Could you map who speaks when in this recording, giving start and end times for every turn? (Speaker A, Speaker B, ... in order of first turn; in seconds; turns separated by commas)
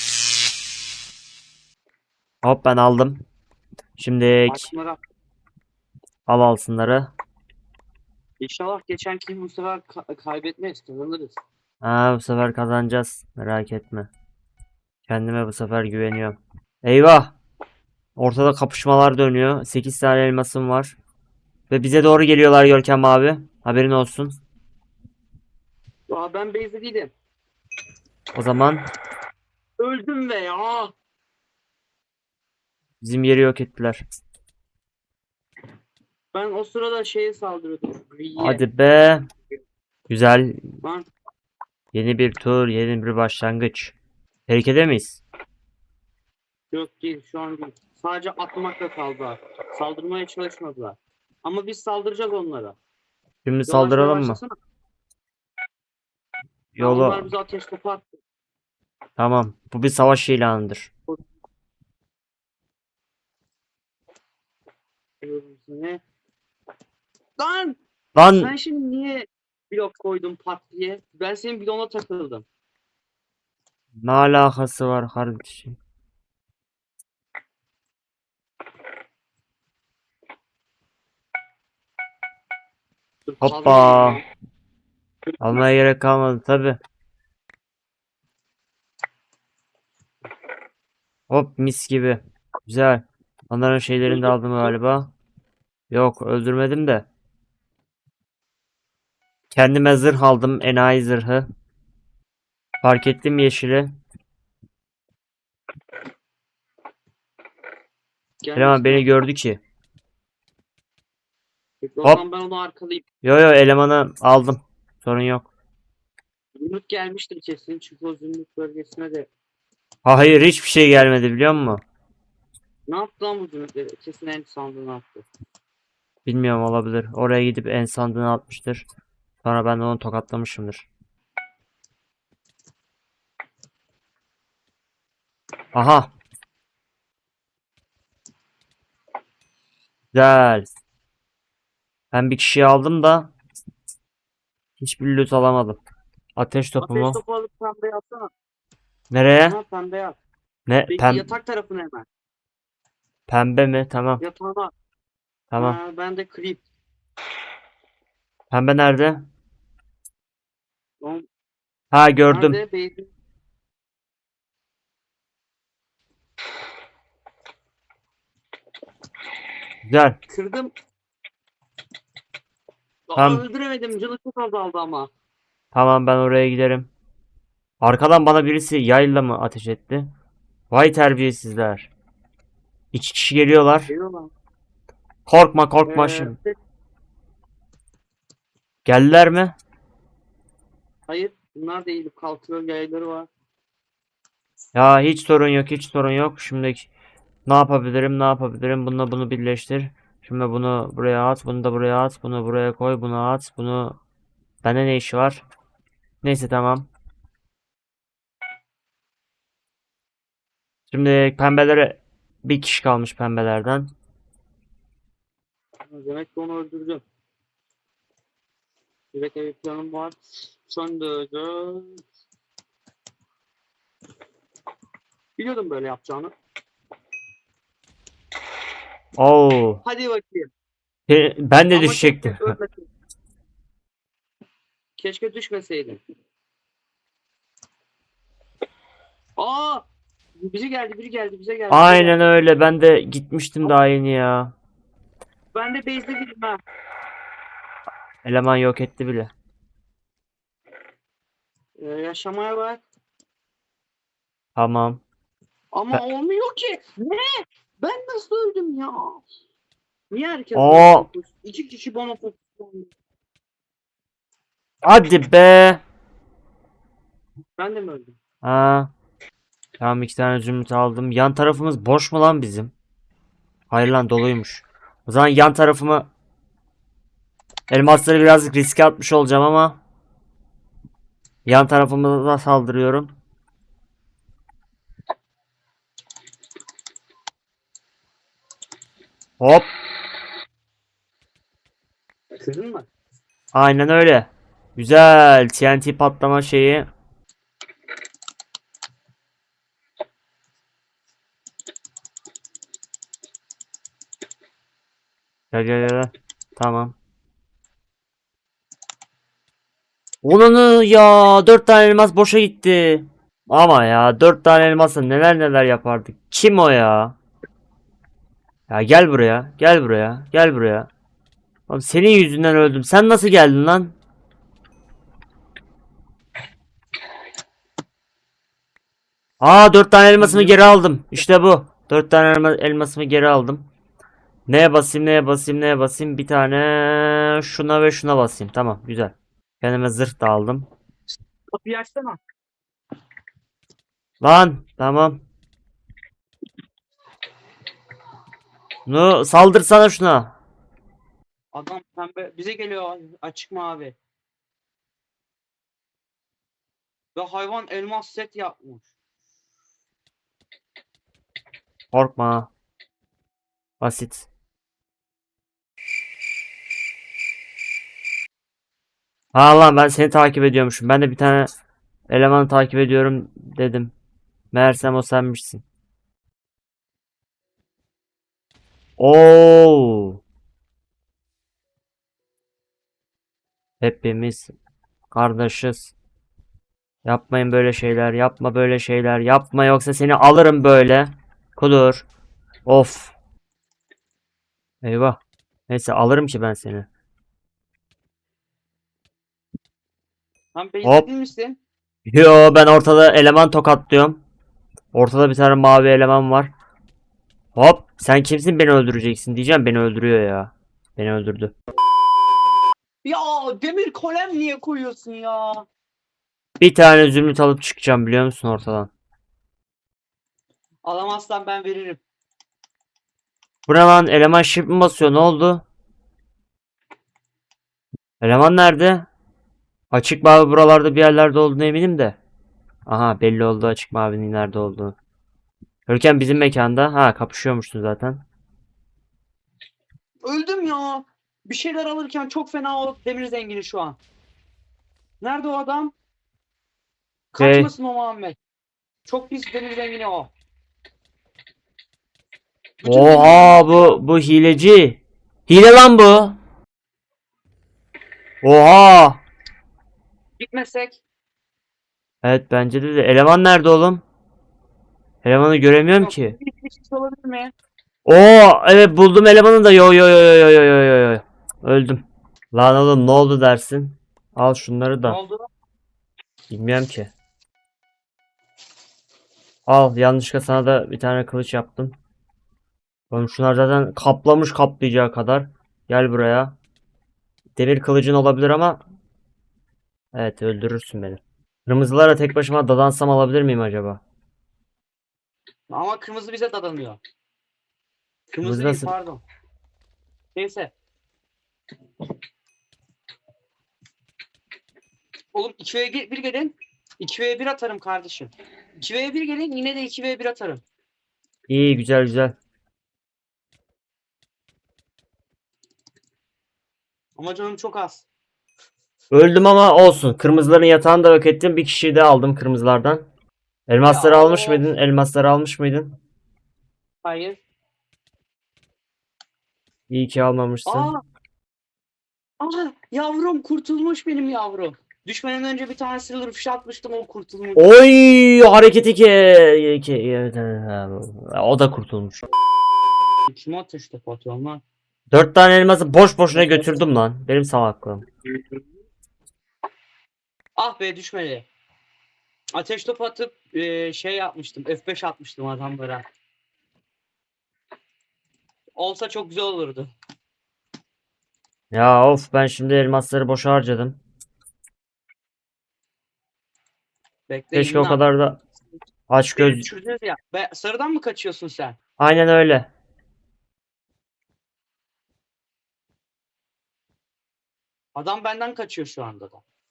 Speaker A: 2.4-3.2, Speaker A: 4.0-4.7, Speaker B: 4.5-5.0, Speaker A: 6.3-7.1, Speaker B: 8.4-11.4, Speaker A: 11.8-14.1, Speaker A: 15.1-17.3, Speaker A: 18.2-21.0, Speaker A: 21.7-24.4, Speaker B: 26.1-27.1, Speaker A: 28.4-28.9, Speaker B: 29.8-30.9, Speaker A: 33.0-34.0, Speaker B: 36.3-38.6, Speaker A: 38.4-39.3, Speaker A: 40.1-40.6, Speaker A: 41.9-44.0, Speaker A: 44.5-45.2, Speaker B: 46.7-52.8, Speaker A: 53.5-54.4, Speaker B: 53.7-54.6, Speaker A: 56.7-57.3, Speaker B: 56.8-58.2, Speaker A: 59.2-60.9, Speaker B: 65.2-66.0, Speaker B: 67.4-72.5, Speaker A: 68.2-68.5, Speaker A: 74.0-75.8, Speaker B: 83.3-84.2, Speaker A: 83.4-84.2, Speaker A: 85.4-86.8, Speaker A: 91.3-95.1, Speaker B: 94.1-94.7, Speaker A: 95.9-97.0, Speaker A: 99.5-101.5, Speaker A: 102.8-103.9, Speaker B: 108.4-109.1, Speaker A: 108.6-109.6, Speaker B: 111.8-113.0, Speaker A: 113.2-115.5, Speaker B: 116.6-119.3, Speaker A: 120.0-121.8, Speaker B: 122.9-125.3, Speaker A: 126.2-128.9, Speaker A: 129.4-130.9, Speaker A: 135.7-136.1, Speaker A: 140.1-140.7, Speaker A: 142.1-143.3, Speaker A: 144.8-145.8, Speaker A: 146.4-147.2, Speaker B: 146.8-148.3, Speaker A: 149.1-149.6, Speaker B: 149.5-150.2, Speaker A: 150.7-151.3, Speaker B: 150.9-152.1, Speaker A: 153.3-154.2, Speaker B: 154.2-154.7, Speaker A: 155.5-155.8, Speaker B: 155.6-156.6, Speaker A: 158.5-159.3, Speaker A: 161.9-162.6, Speaker B: 162.3-163.1, Speaker A: 169.9-170.2, Speaker B: 170.3-170.7, Speaker B: 173.1-175.1, Speaker A: 173.2-173.4, Speaker A: 175.7-176.9, Speaker A: 177.8-180.1, Speaker A: 180.7-181.9, Speaker A: 182.9-183.9, Speaker B: 183.9-184.3, Speaker A: 185.3-186.4, Speaker B: 185.9-186.6, Speaker A: 188.8-189.6, Speaker B: 191.1-193.3, Speaker A: 194.7-196.9, Speaker A: 197.5-204.0, Speaker A: 204.6-205.4, Speaker A: 206.2-206.9, Speaker A: 210.9-213.9, Speaker B: 215.9-217.0, Speaker B: 219.1-222.0, Speaker B: 225.4-226.3, Speaker A: 229.2-229.8, Speaker B: 229.8-230.5, Speaker A: 231.1-232.4, Speaker B: 231.7-232.9, Speaker B: 235.0-236.0, Speaker B: 239.4-239.9, Speaker B: 240.4-242.3, Speaker A: 241.7-244.5, Speaker B: 245.5-246.6, Speaker A: 248.2-249.3, Speaker B: 251.8-252.8, Speaker A: 254.6-255.0, Speaker B: 255.7-259.2, Speaker B: 260.1-262.9, Speaker A: 260.6-261.1, Speaker A: 264.8-265.8, Speaker B: 267.6-268.2, Speaker A: 268.4-268.9, Speaker A: 269.8-272.7, Speaker A: 273.7-276.1, Speaker A: 277.7-279.8, Speaker A: 281.4-283.1, Speaker A: 289.4-289.7, Speaker B: 292.4-292.9, Speaker A: 293.5-296.9, Speaker A: 305.5-306.9, Speaker A: 310.2-317.2, Speaker A: 318.7-320.9, Speaker A: 321.7-323.9, Speaker A: 329.4-333.7, Speaker B: 330.2-330.6, Speaker A: 334.5-340.7, Speaker B: 341.5-342.2, Speaker A: 344.2-345.2, Speaker A: 348.9-350.3, Speaker B: 351.5-354.0, Speaker B: 357.1-358.9, Speaker A: 361.9-362.5, Speaker A: 363.8-364.3, Speaker A: 369.3-371.5, Speaker A: 372.1-373.9, Speaker A: 374.5-375.6, Speaker A: 379.0-380.2, Speaker A: 383.8-384.5, Speaker A: 385.1-385.9, Speaker A: 387.1-392.1, Speaker A: 392.7-393.1, Speaker A: 394.8-396.9, Speaker B: 400.6-401.6, Speaker A: 400.8-401.1, Speaker A: 402.1-404.2, Speaker A: 404.9-406.5, Speaker A: 407.6-411.5, Speaker B: 413.0-415.7, Speaker A: 416.6-418.9, Speaker B: 420.9-422.0, Speaker A: 423.7-425.6, Speaker A: 428.2-429.1, Speaker A: 429.9-432.2, Speaker A: 432.9-434.9, Speaker A: 435.9-438.2, Speaker B: 440.2-444.0, Speaker B: 445.2-445.9, Speaker B: 447.3-448.4, Speaker A: 447.4-447.7, Speaker B: 449.1-450.3, Speaker B: 452.8-454.0, Speaker A: 452.8-456.4, Speaker A: 458.4-459.2, Speaker B: 460.4-461.0, Speaker A: 462.2-464.0, Speaker A: 465.2-466.4, Speaker B: 466.0-467.5, Speaker A: 468.1-475.2, Speaker B: 475.1-475.5, Speaker A: 476.5-477.1, Speaker A: 479.7-481.9, Speaker A: 483.1-486.6, Speaker A: 487.6-488.8, Speaker A: 490.1-494.0, Speaker B: 495.7-497.0, Speaker B: 498.3-499.2, Speaker A: 498.4-498.9, Speaker B: 500.4-500.7, Speaker B: 505.3-510.6, Speaker A: 511.5-512.4, Speaker B: 517.2-518.1, Speaker A: 519.1-523.0, Speaker A: 523.7-526.0, Speaker B: 523.8-524.7, Speaker B: 527.0-527.4, Speaker A: 529.9-530.9, Speaker B: 530.7-531.0, Speaker B: 532.4-537.7, Speaker A: 537.6-542.3, Speaker B: 543.3-544.6, Speaker A: 545.1-548.0, Speaker B: 546.4-546.7, Speaker B: 550.6-551.5, Speaker B: 552.5-556.0, Speaker B: 558.8-559.9, Speaker A: 561.7-564.0, Speaker B: 567.3-568.0, Speaker A: 567.5-568.4, Speaker A: 569.1-569.7, Speaker B: 569.4-571.8, Speaker A: 572.0-572.7, Speaker B: 578.0-579.4